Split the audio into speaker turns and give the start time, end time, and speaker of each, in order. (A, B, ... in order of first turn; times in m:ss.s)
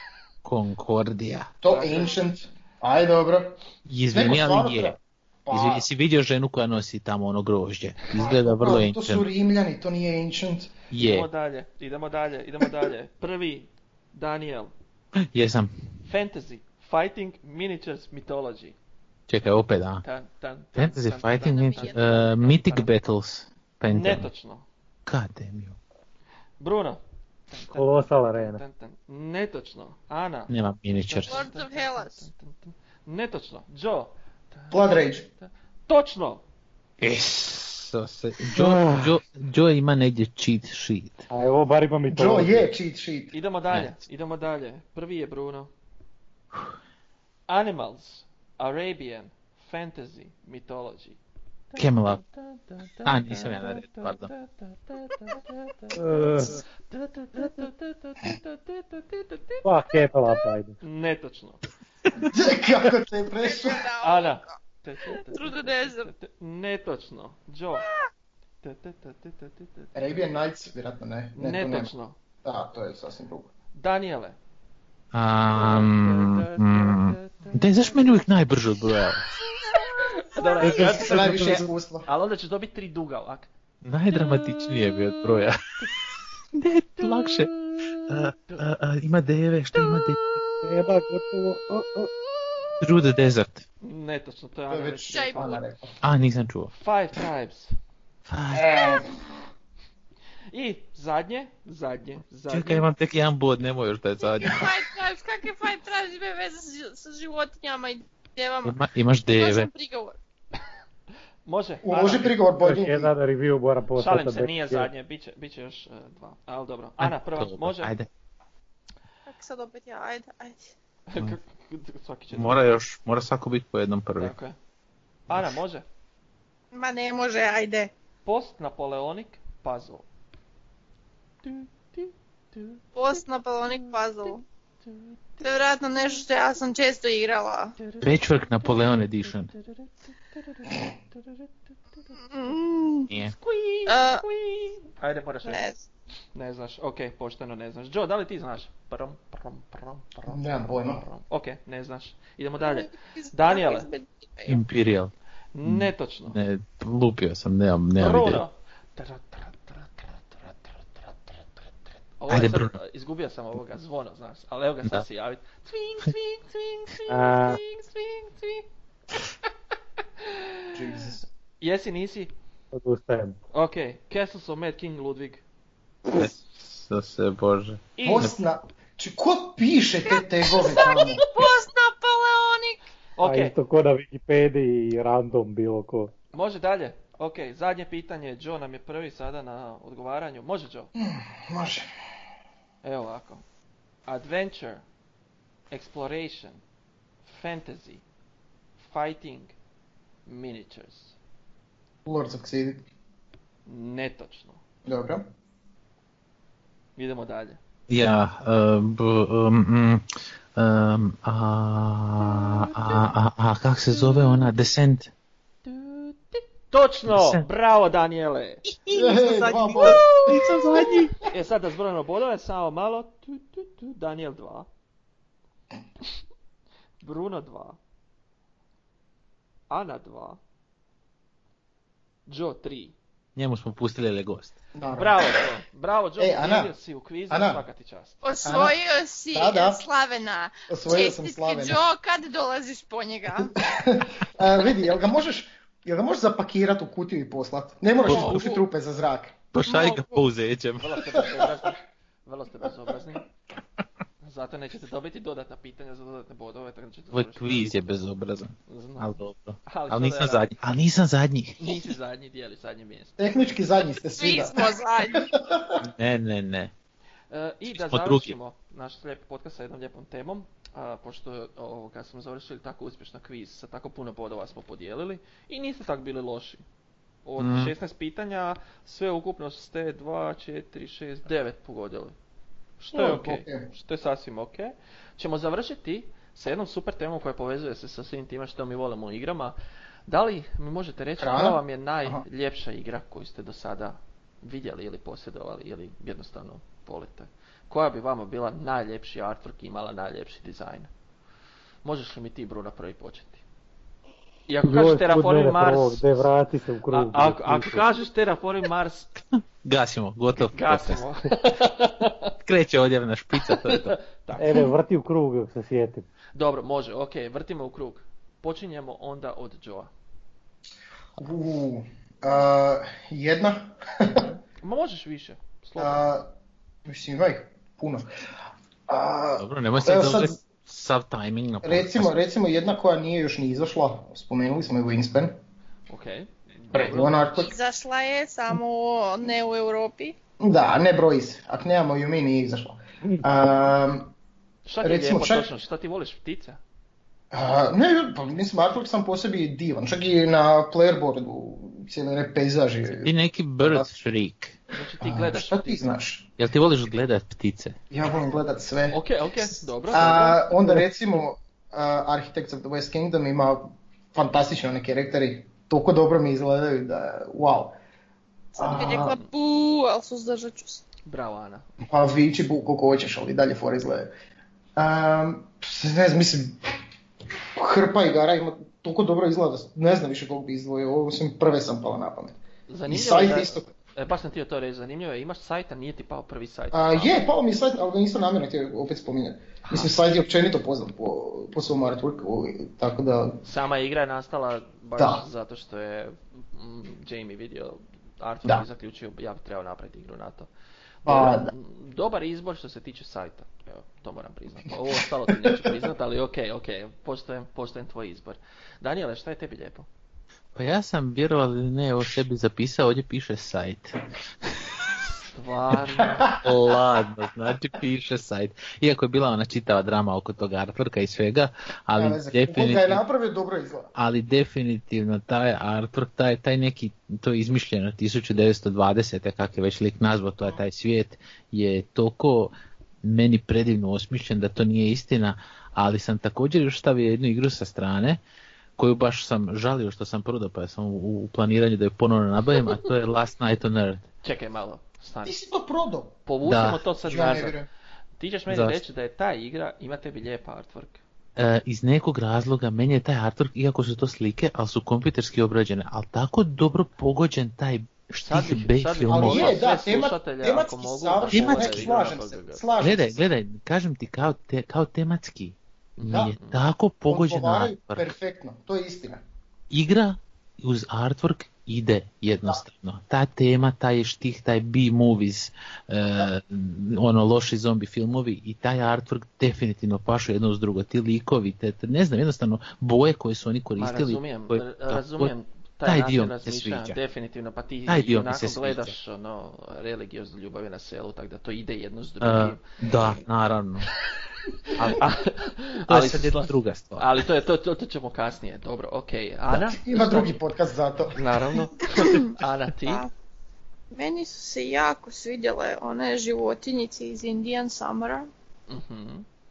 0:00.4-0:01.5 A
0:01.6-0:03.6 B
0:01.7-0:02.2 C
0:03.9-0:05.0 A
0:04.1-0:05.8 B
0:05.5-0:09.2 A
0:08.2-0:10.7 B
0:10.9-0:11.3 A
0:11.0-0:14.7 C
0:15.3-0:15.7 A
0:16.0-0:18.8 C
0:19.3-0:20.0 A
0:20.0-0:22.9 C
0:20.8-0:24.3 A
0:21.4-0:22.1 D
0:23.9-0:24.6 C
0:25.1-0:25.8 A
0:26.6-0:36.4 C
0:27.7-0:28.6 E
0:30.5-0:31.4 A
0:31.3-0:32.2 D
0:34.7-0:35.3 B
0:37.0-0:41.3 A
0:38.5-0:39.2 E
0:41.3-0:42.7 E
0:42.1-0:43.3 B
0:43.3-0:45.7 C
0:47.5-0:51.2 C
0:51.7-0:59.7 C
0:51.8-0:52.2 A
0:53.0-0:54.3 A
0:56.0-0:56.6 E
0:59.6-1:00.8 E
1:00.8-1:01.6 C
1:02.3-1:03.9 B
1:03.4-1:04.6 D
1:04.0-1:07.9 C
1:05.3-1:06.1 D
1:08.6-1:10.0 C
1:10.0-1:11.9 B
1:11.4-1:12.2 C
1:12.4-1:13.5 B
1:13.7-1:14.4 C
1:15.1-1:19.3 A
1:15.5-1:18.2 C
1:20.2-1:23.5 C
1:20.6-1:22.1 B
1:20.8-1:21.5 E
1:23.8-1:25.6 A
1:24.1-1:26.0 C
1:26.6-1:30.3 A
1:27.0-1:28.7 C
1:29.8-1:30.4 C
1:30.6-1:32.1 E
1:32.8-1:33.6 A
1:33.8-1:35.6 C
1:34.7-1:35.9 B
1:35.1-1:35.6 D
1:36.0-1:36.7 A
1:36.7-1:37.7 C
1:38.3-1:38.8 A
1:38.5-1:39.1 B
1:40.5-1:42.9 C
1:42.5-1:44.8 A
1:44.4-1:48.8 D
1:48.6-1:49.7 A
1:49.3-1:50.2 D
1:51.5-1:52.4 C
1:51.8-1:53.1 B
1:52.6-1:54.9 E
1:54.0-1:57.9 C
1:57.0-1:58.1 A
1:59.3-2:00.7 D
2:01.1-2:02.6 C
2:02.3-2:04.3 A
2:04.2-2:04.6 C
2:05.3-2:05.8 C
2:06.7-2:07.9 D
2:08.2-2:10.1 C
2:11.4-2:14.3 C
2:13.0-2:14.4 D
2:14.8-2:15.6 C
2:15.4-2:17.8 D
2:17.8-2:18.1 C
2:18.0-2:19.5 A
2:19.6-2:21.5 C
2:22.2-2:23.1 D
2:23.3-2:25.6 C
2:23.9-2:24.2 D
2:25.5-2:25.8 D
2:26.4-2:33.9 C
2:30.3-2:31.0 B
2:32.6-2:34.6 D
2:34.5-2:35.1 A
2:35.5-2:36.4 C
2:35.6-2:38.4 A
2:38.0-2:41.2 C
2:42.2-2:48.7 C
2:42.3-2:42.8 A
2:47.1-2:47.6 E
2:50.2-2:50.8 C
2:50.7-2:51.2 B
2:51.6-2:52.3 C
2:52.7-2:53.4 E
2:53.5-2:55.4 C
2:56.1-2:58.3 A
2:58.0-2:58.3 C
2:58.0-3:01.2 B
3:00.5-3:02.8 D
3:03.2-3:03.6 C
3:03.2-3:06.1 E
3:06.3-3:10.9 C
3:11.0-3:11.9 B
3:12.8-3:13.4 C
3:14.1-3:14.8 C
3:15.7-3:16.6 C
3:17.2-3:18.0 C
3:18.8-3:19.5 C
3:20.3-3:21.2 C
3:22.0-3:22.9 B
3:23.7-3:24.6 C
3:24.9-3:25.2 B
3:27.0-3:27.6 C
3:27.9-3:35.1 A
3:34.1-3:34.4 C
3:35.7-3:38.6 C
3:37.1-3:37.4 A
3:38.7-3:41.1 D
3:38.9-3:40.4 B
3:39.8-3:41.2 A
3:41.3-3:44.7 C
3:47.0-3:47.8 C
3:49.7-3:50.4 C
3:52.3-3:53.0 C
3:53.4-3:54.6 A
3:54.8-3:55.5 B
3:55.0-3:58.2 C
3:56.2-3:56.7 B
3:57.3-3:57.6 B
3:58.2-4:03.6 D
3:58.4-3:58.8 B
3:59.3-3:59.8 B
4:00.7-4:01.8 B
4:03.6-4:09.4 B
4:08.1-4:08.4 A
4:08.1-4:08.6 D
4:09.5-4:11.3 A
4:09.7-4:10.3 D
4:10.8-4:13.3 C
4:14.2-4:17.9 C
4:17.1-4:21.7 A
4:18.7-4:19.1 C
4:19.6-4:20.5 C
4:21.6-4:23.5 C
4:23.2-4:25.8 B
4:24.2-4:25.3 D
4:25.8-4:26.7 A
4:27.3-4:36.6 C
4:27.7-4:28.4 A
4:37.2-4:42.2 C
4:37.4-4:37.7 A
4:42.8-4:49.6 C
4:42.9-4:43.7 B
4:50.1-5:00.9 C
4:51.2-4:52.2 B
5:01.8-5:03.4 C
5:04.5-5:06.3 C
5:04.6-5:07.8 E
5:06.9-5:09.1 C
5:09.6-5:11.0 A
5:10.5-5:12.3 C
5:12.4-5:14.0 A
5:13.4-5:14.7 C
5:14.4-5:16.1 E
5:16.4-5:19.9 C
5:21.2-5:24.3 B
5:24.6-5:26.1 C
5:25.8-5:26.3 B
5:26.8-5:28.1 B
5:28.9-5:30.4 B
5:29.4-5:32.1 A
5:31.6-5:35.4 B
5:35.9-5:37.5 C
5:36.7-5:37.6 B
5:37.4-5:40.2 D
5:40.4-5:44.1 B
5:44.7-5:46.6 C
5:44.8-5:45.5 B
5:47.3-5:53.1 B
5:52.9-5:54.6 A
5:53.6-5:53.9 B
5:54.7-5:55.9 C
5:55.0-5:56.3 B
5:56.4-5:57.8 A
5:57.9-5:59.0 B
5:58.9-6:00.5 C
5:59.9-6:07.8 B
6:08.6-6:09.2 B
6:08.6-6:10.8 D
6:08.7-6:09.2 C
6:11.1-6:11.7 C
6:11.9-6:14.1 B
6:14.8-6:16.6 B
6:17.6-6:23.7 B
6:22.7-6:27.2 C
6:26.7-6:33.4 B
6:29.6-6:29.9 C
6:33.4-6:40.5 C
6:35.0-6:35.2 B
6:41.0-6:49.9 C
6:41.1-6:41.5 B
6:50.6-6:54.0 A
6:54.5-6:54.9 A
6:55.2-6:56.3 C
6:56.2-6:56.8 B
6:56.4-7:03.0 A
7:02.0-7:03.9 B
7:04.0-7:12.5 A
7:13.0-7:18.2 A
7:18.8-7:24.0 A
7:24.2-7:25.4 C
7:25.2-7:26.2 B
7:26.3-7:27.6 C
7:26.4-7:26.8 A
7:27.0-7:27.7 B
7:28.2-7:31.0 C
7:28.5-7:28.8 A
7:31.4-7:39.6 A
7:38.2-7:42.6 C
7:39.1-7:43.1 B
7:41.3-7:41.9 A
7:42.8-7:48.1 A
7:46.0-7:46.6 C
7:46.1-7:46.4 B
7:47.1-7:49.2 B
7:49.7-8:05.3 A
8:03.8-8:12.6 C
8:05.8-8:07.0 A
8:07.9-8:09.0 A
8:12.2-8:13.9 A
8:14.7-8:20.4 C
8:14.7-8:15.1 A
8:15.9-8:17.1 A
8:19.5-8:21.6 B
8:21.1-8:23.1 C
8:23.9-8:28.3 D
8:28.7-8:29.3 C